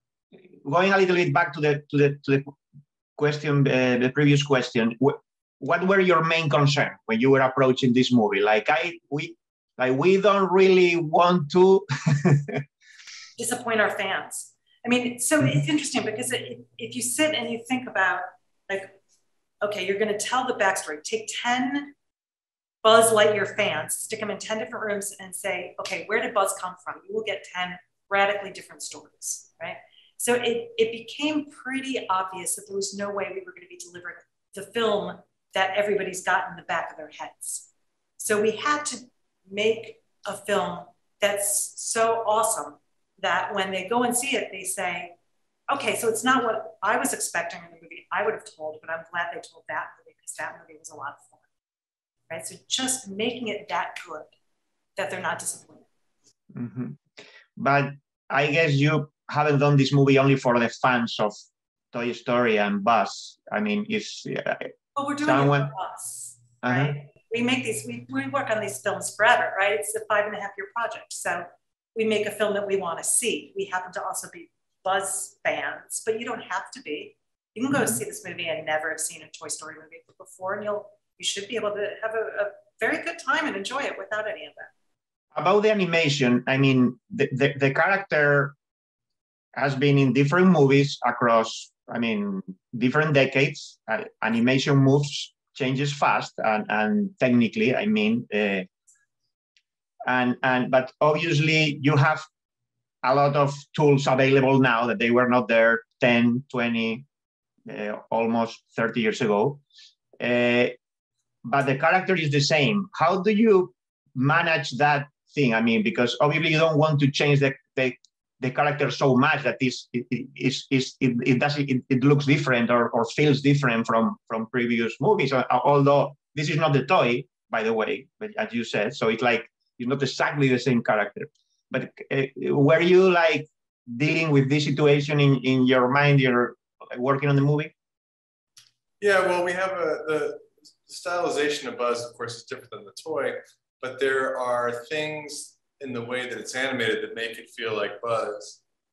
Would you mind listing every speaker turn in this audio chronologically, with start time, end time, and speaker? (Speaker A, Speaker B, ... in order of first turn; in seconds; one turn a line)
Speaker A: 0.6-2.5
Speaker A: 3.2-12.6
Speaker B: 13.4-19.0
Speaker B: 19.6-21.9
Speaker B: 22.8-45.2
Speaker B: 45.7-51.4
Speaker B: 52.3-54.3
Speaker B: 55.0-55.9
Speaker A: 56.5-57.0
Speaker A: 57.6-61.4
Speaker A: 61.9-64.7
Speaker B: 65.0-84.7
Speaker A: 65.2-65.7
Speaker A: 66.6-66.9
Speaker A: 77.7-78.0
Speaker A: 85.3-88.5
Speaker A: 89.5-98.7
Speaker A: 100.0-102.3
Speaker A: 103.0-107.0
Speaker A: 107.7-109.6
Speaker A: 110.2-110.8
Speaker A: 111.4-137.7
Speaker C: 139.0-148.6